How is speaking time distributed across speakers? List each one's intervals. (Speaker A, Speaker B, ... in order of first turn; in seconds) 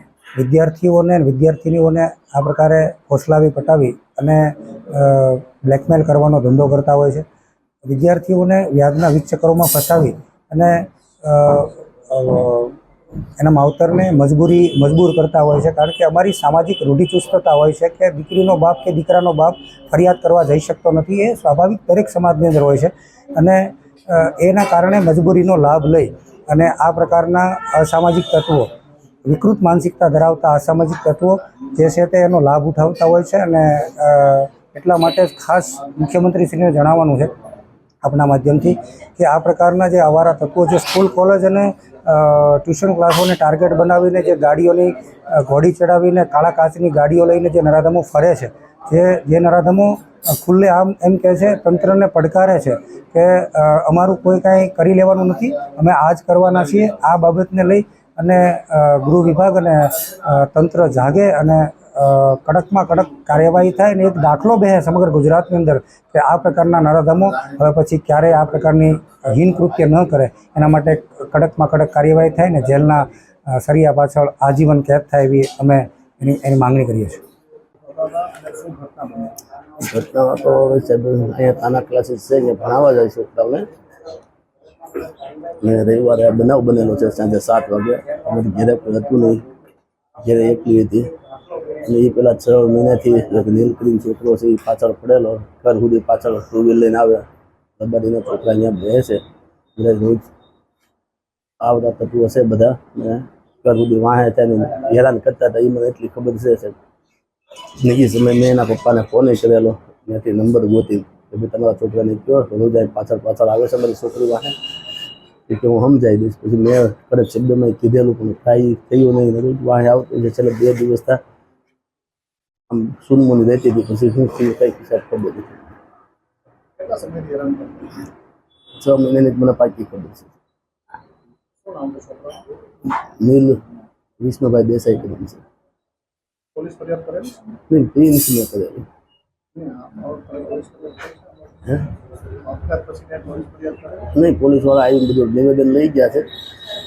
Speaker A: 0.4-7.2, 7.8-12.8, 13.4-28.7, 29.2-37.3, 38.0-77.2
Speaker B: 77.9-79.4, 126.8-128.0, 131.6-132.4, 136.6-137.4, 139.6-141.3, 142.4-144.2
Speaker C: 79.8-83.7, 85.6-89.4, 90.2-91.1, 91.9-97.2, 97.8-99.2, 99.8-100.3, 101.6-106.8, 107.8-114.5, 115.5-121.2, 122.7-125.6, 128.8-130.3, 133.2-133.6, 134.2-135.4, 137.7-138.8, 144.2-146.3